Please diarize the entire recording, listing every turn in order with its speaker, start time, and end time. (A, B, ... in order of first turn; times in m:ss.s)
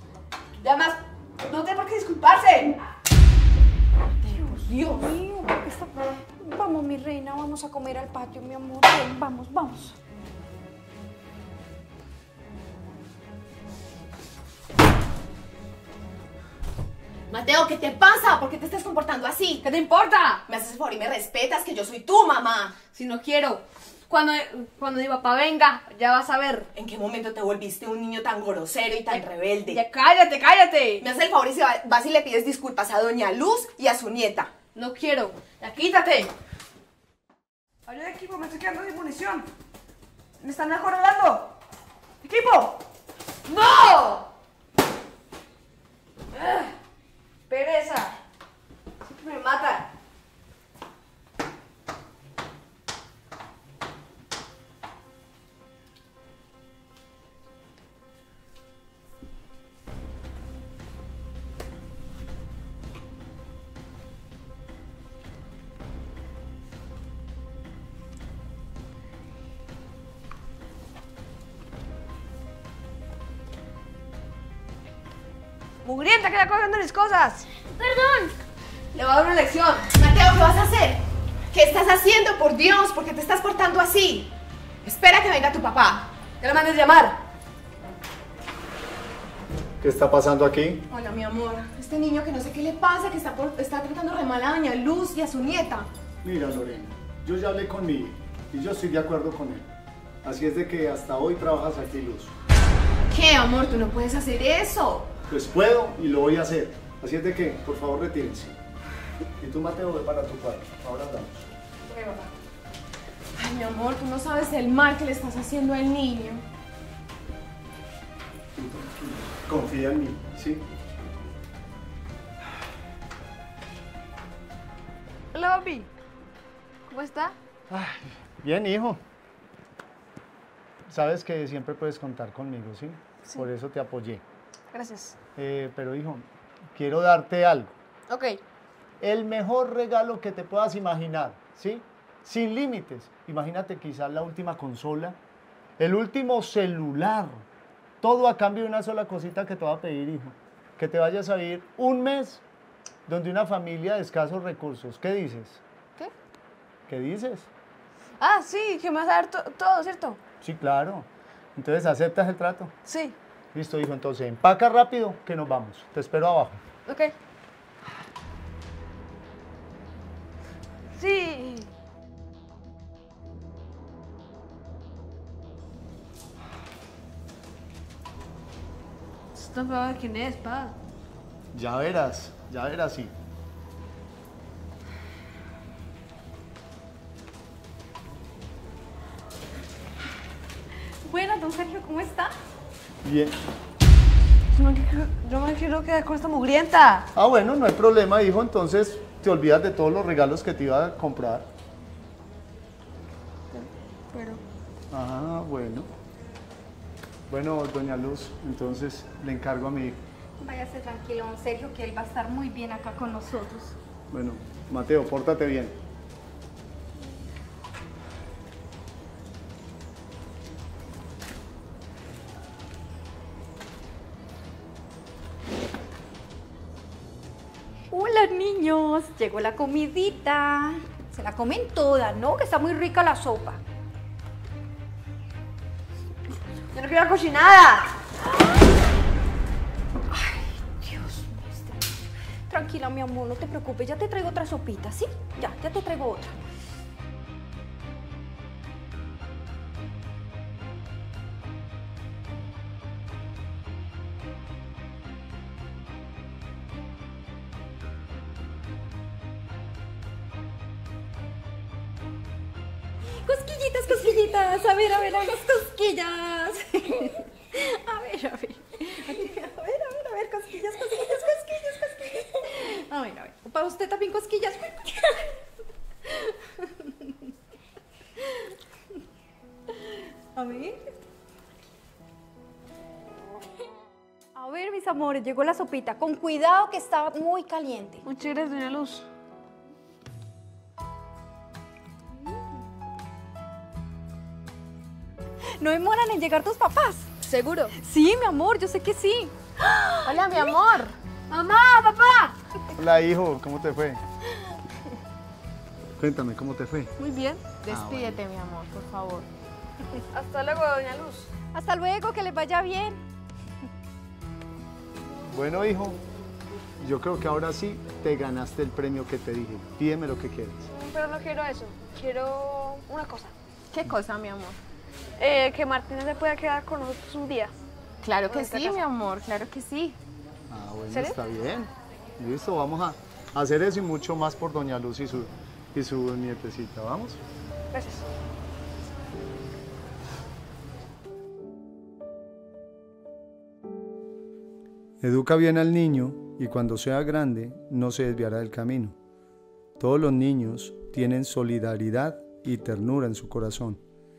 0:00.6-0:02.8 A
0:04.2-0:04.9 B
0:04.3-0:05.1 A
0:04.8-0:10.0 C
0:17.3-0:19.6 B
0:19.6-0:20.4 A
0:20.5-0:22.8 B
0:22.9-0:26.7 A
0:26.7-0:29.8 B
0:29.1-0:31.0 A
0:31.0-0:34.5 B
0:34.7-0:36.3 A
0:37.9-0:39.4 A
0:40.4-0:41.5 A
0:42.2-0:42.7 A
0:43.4-0:44.3 A
0:46.3-0:46.7 A
0:47.5-0:48.2 A
0:49.0-0:49.9 A
1:15.8-1:18.3 A
1:18.9-1:19.9 A
1:19.9-1:24.3 B
1:24.8-1:26.1 B
1:26.4-1:27.2 A
1:29.8-1:30.8 D
1:30.9-1:35.9 B
1:36.2-1:39.7 D
1:40.2-1:42.3 D
1:43.1-1:45.1 B
1:45.3-1:48.6 D
1:49.4-1:51.5 D
1:51.9-1:52.3 A
1:53.4-1:56.4 B
1:58.6-2:00.6 D
2:05.3-2:05.9 A
2:06.9-2:07.4 A
2:07.7-2:09.0 D
2:10.8-2:14.2 D
2:14.7-2:15.2 A
2:15.4-2:17.7 D
2:18.1-2:18.4 A
2:19.0-2:25.2 D
2:25.8-2:27.5 D
2:28.0-2:32.4 D
2:33.1-2:35.6 D
2:36.9-2:37.5 D
2:38.2-2:40.2 A
2:40.4-2:42.7 D
2:42.8-2:43.2 A
2:43.5-2:46.6 D
2:46.8-2:47.2 A
2:51.0-2:51.7 A
2:59.3-3:00.8 A
3:01.5-3:03.1 D
3:11.0-3:12.3 C
3:13.0-3:13.4 D
3:14.5-3:17.1 A
3:17.2-3:21.5 D
3:23.5-3:24.4 A
3:24.9-3:25.9 D
3:27.3-3:30.0 D
3:30.4-3:33.8 C
3:34.1-3:35.8 D
3:47.9-3:53.6 C
3:56.7-3:57.9 A
4:00.1-4:01.8 C
4:02.5-4:06.4 C
4:23.1-4:35.3 C
4:36.0-4:37.2 C
4:40.3-4:40.8 C
4:44.4-4:48.0 C
4:48.0-4:49.1 A
4:55.6-4:57.1 C
4:57.2-4:57.8 A
4:57.8-4:59.3 C
4:59.6-5:00.1 A
5:00.0-5:00.9 B
5:01.3-5:02.4 A
5:02.8-5:04.0 D
5:06.0-5:06.9 D
5:07.0-5:07.4 A
5:07.6-5:09.2 B
5:07.7-5:08.2 D
5:10.1-5:11.3 A
5:11.5-5:13.0 C
5:15.3-5:16.0 D
5:16.8-5:20.7 D
5:20.7-5:23.3 A
5:23.7-5:24.6 B
5:25.2-5:27.6 A
5:28.0-5:30.0 B
5:28.2-5:28.8 A
5:30.5-5:37.2 D
5:30.9-5:31.2 A
5:37.7-5:38.1 A
5:45.0-5:49.0 D
5:49.8-5:53.8 D